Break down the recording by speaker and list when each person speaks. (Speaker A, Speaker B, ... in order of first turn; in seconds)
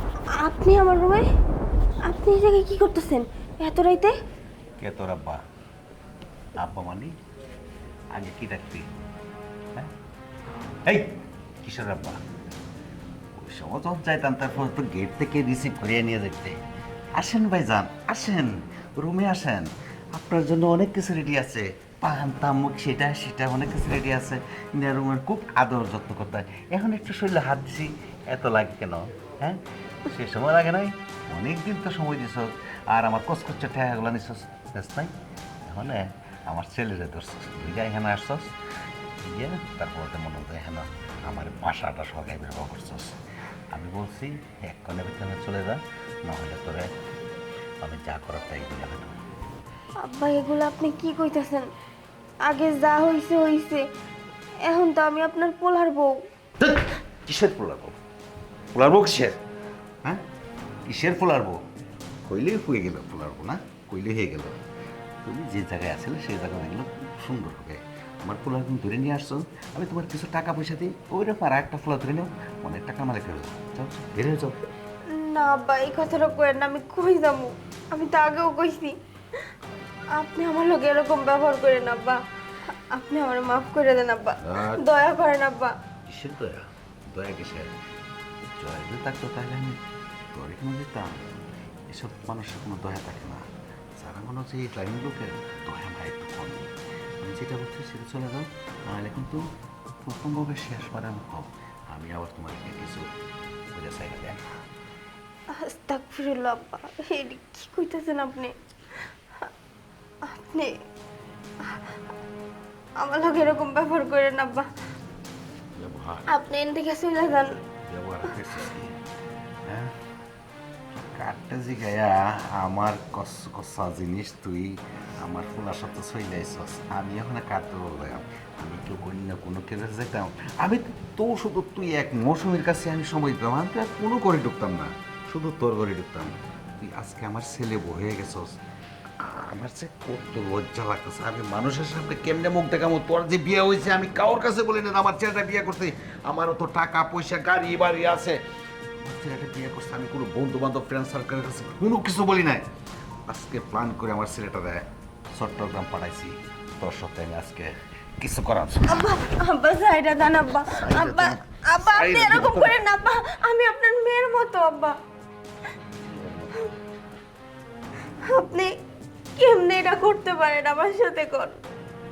Speaker A: 0.3-1.3, 2.1-4.1, 50.0-51.7, 52.4-53.8, 54.6-56.2, 75.1-79.0, 80.2-85.8, 105.5-108.5, 110.2-110.8, 113.0-114.7, 116.3-117.5, 158.9-165.0, 168.2-168.7, 169.4-171.6
Speaker B: 4.8-5.4, 6.6-7.1, 8.1-8.9, 10.8-12.2, 13.4-16.6, 17.2-35.1, 35.7-38.5, 39.2-43.2, 43.7-46.9, 47.8-49.2, 56.6-58.0, 58.7-59.4, 60.9-61.6, 62.2-64.6, 65.2-74.6, 84.4-84.8, 86.1-87.7, 88.6-89.8, 90.3-91.2, 91.9-93.4, 94.0-96.7, 97.2-99.4, 100.0-103.1, 103.7-104.4, 115.8-116.3, 117.9-119.0, 119.7-119.9, 120.9-138.5, 139.2-148.4, 149.0-152.6, 153.3-159.1, 160.7-162.8, 166.0-166.5